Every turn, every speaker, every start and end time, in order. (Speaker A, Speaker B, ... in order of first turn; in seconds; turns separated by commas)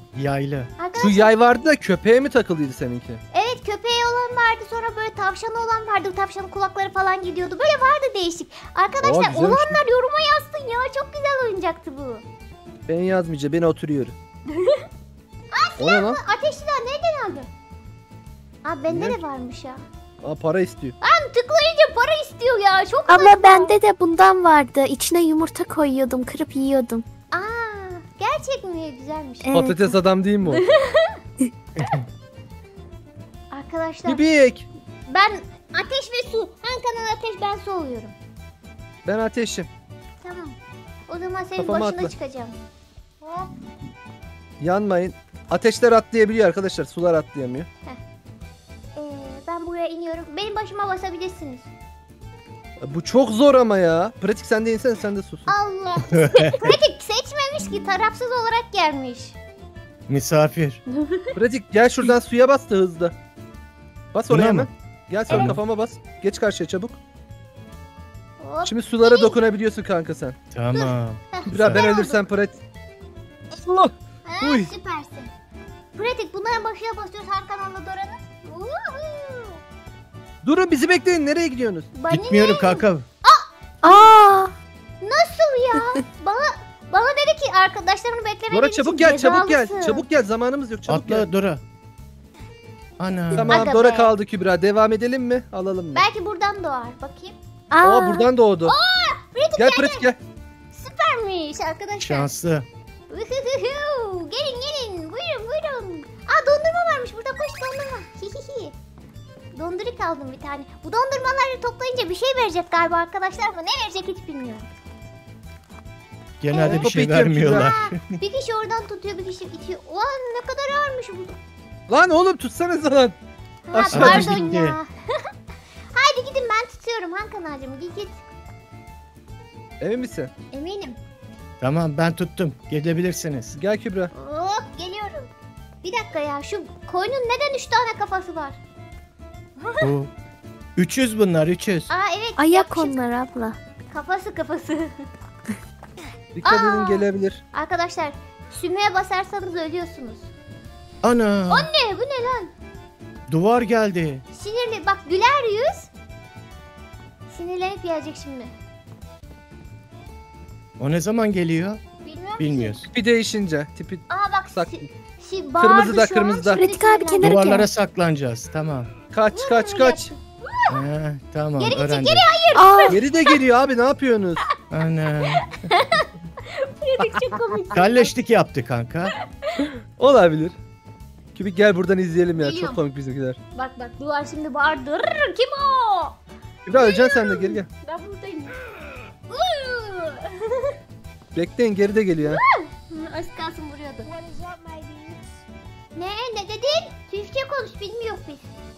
Speaker A: 0.1-0.7, Speaker B: 0.8-1.3, Speaker C: 1.0-3.2, Speaker B: 3.3-12.2, Speaker C: 9.0-9.8, Speaker C: 12.9-14.2, Speaker B: 14.5-14.9, Speaker B: 15.5-17.5, Speaker C: 15.8-16.2, Speaker B: 18.6-19.9, Speaker C: 18.9-19.2, Speaker C: 20.2-21.0, Speaker B: 21.0-23.8, Speaker D: 23.1-27.0, Speaker B: 27.3-29.5, Speaker D: 29.5-29.9, Speaker C: 29.5-30.6, Speaker B: 30.4-31.2, Speaker B: 33.5-34.2, Speaker C: 34.1-34.7, Speaker B: 35.1-38.1, Speaker C: 39.0-39.7, Speaker B: 40.2-40.6, Speaker B: 41.1-42.6, Speaker C: 41.6-42.1, Speaker B: 43.2-43.6, Speaker C: 44.6-47.7, Speaker B: 49.0-51.7, Speaker C: 52.8-55.5, Speaker B: 55.5-59.4, Speaker A: 56.1-56.7, Speaker A: 60.1-60.8, Speaker B: 60.9-61.3, Speaker C: 61.4-63.1, Speaker C: 64.1-67.0, Speaker A: 64.3-64.7, Speaker A: 65.3-65.6, Speaker B: 68.4-69.4, Speaker C: 68.7-70.4, Speaker A: 70.5-71.9, Speaker B: 70.7-72.3, Speaker C: 71.5-72.6, Speaker C: 73.5-74.7, Speaker B: 74.2-75.3, Speaker B: 76.0-79.6, Speaker C: 80.4-81.9, Speaker B: 81.9-84.0, Speaker A: 82.1-83.0, Speaker D: 83.8-84.5, Speaker B: 85.0-90.0, Speaker C: 88.5-91.2, Speaker A: 90.9-91.6, Speaker A: 93.0-93.7, Speaker C: 93.3-96.1, Speaker B: 93.5-94.1, Speaker B: 95.9-97.4, Speaker D: 97.7-98.3, Speaker C: 97.8-98.8, Speaker B: 98.6-100.1, Speaker C: 99.6-100.2, Speaker B: 100.7-102.3, Speaker A: 102.0-102.7, Speaker B: 103.1-108.8, Speaker B: 109.5-114.7, Speaker A: 116.4-118.2, Speaker B: 116.5-116.9, Speaker C: 116.6-117.7, Speaker B: 117.5-121.4, Speaker C: 121.9-123.2, Speaker B: 123.7-124.9, Speaker C: 123.7-124.4, Speaker A: 123.9-124.8, Speaker B: 125.9-128.2, Speaker C: 129.8-130.3, Speaker B: 130.5-131.0, Speaker A: 131.6-133.6, Speaker C: 133.5-134.1, Speaker B: 134.1-135.3, Speaker B: 135.8-138.6, Speaker B: 139.6-139.9, Speaker A: 139.8-140.1, Speaker A: 140.8-141.9, Speaker B: 141.9-143.0, Speaker D: 142.4-143.6, Speaker B: 143.9-145.1, Speaker C: 146.3-147.4, Speaker B: 146.4-150.3, Speaker A: 151.0-151.7, Speaker B: 151.5-152.5, Speaker A: 153.3-154.2, Speaker B: 154.3-155.9, Speaker B: 157.3-158.5, Speaker A: 160.8-161.8, Speaker B: 162.0-162.8, Speaker A: 162.4-162.9, Speaker C: 162.9-164.8, Speaker B: 164.1-167.4, Speaker C: 165.6-166.7, Speaker D: 166.6-167.7, Speaker A: 167.2-168.9, Speaker C: 169.1-170.1, Speaker B: 169.3-170.8, Speaker A: 170.7-172.3, Speaker B: 171.6-173.4, Speaker D: 172.6-173.0, Speaker C: 172.9-174.4, Speaker A: 174.7-175.6, Speaker B: 175.5-178.1, Speaker A: 177.7-179.2, Speaker C: 180.0-180.6, Speaker C: 181.3-183.4, Speaker B: 182.4-182.8, Speaker B: 183.5-186.2, Speaker C: 186.7-187.7, Speaker B: 186.7-188.6, Speaker B: 189.3-190.8, Speaker C: 191.3-192.4, Speaker B: 192.2-195.2, Speaker B: 195.9-198.4